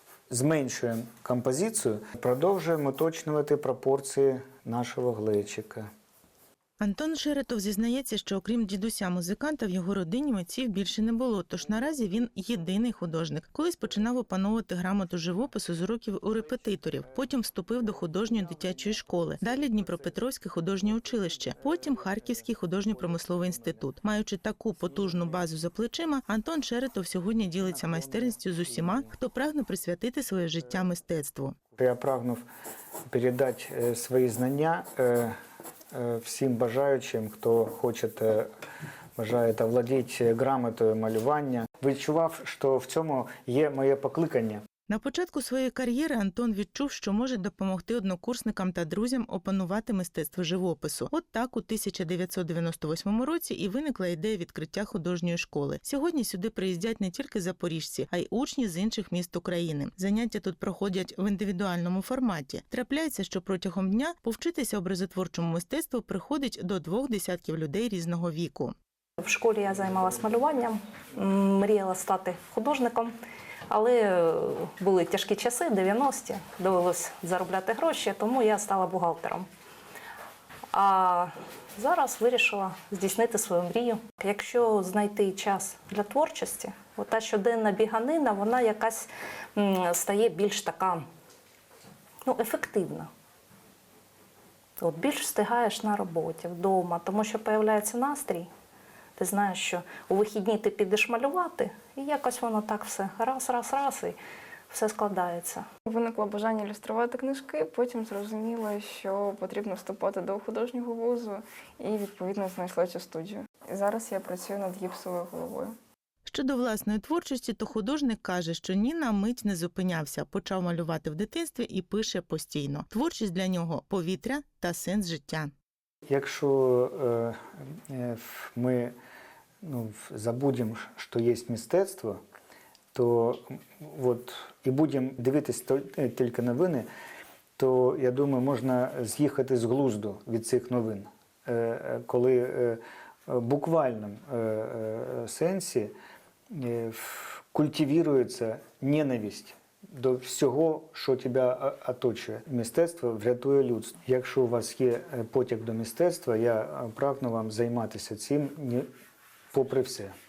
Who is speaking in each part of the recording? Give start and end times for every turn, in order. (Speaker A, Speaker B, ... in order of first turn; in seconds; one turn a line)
Speaker A: 0.3-5.9
Speaker B: 6.8-31.6
Speaker A: 31.8-32.4
Speaker A: 33.1-35.4
Speaker A: 35.9-38.5
Speaker A: 39.2-44.6
Speaker B: 44.9-68.7
Speaker C: 69.2-73.1
Speaker C: 73.7-79.5
Speaker C: 80.7-91.0
Speaker C: 92.2-93.1
Speaker C: 94.8-98.5
Speaker C: 99.2-104.2
Speaker C: 104.7-105.7
Speaker D: 105.9-115.7
Speaker B: 116.3-125.5
Speaker A: 126.1-128.9
Speaker A: 129.6-132.2
Speaker A: 132.9-136.9
Speaker A: 137.6-145.9
Speaker A: 146.5-158.9
Speaker A: 159.5-160.1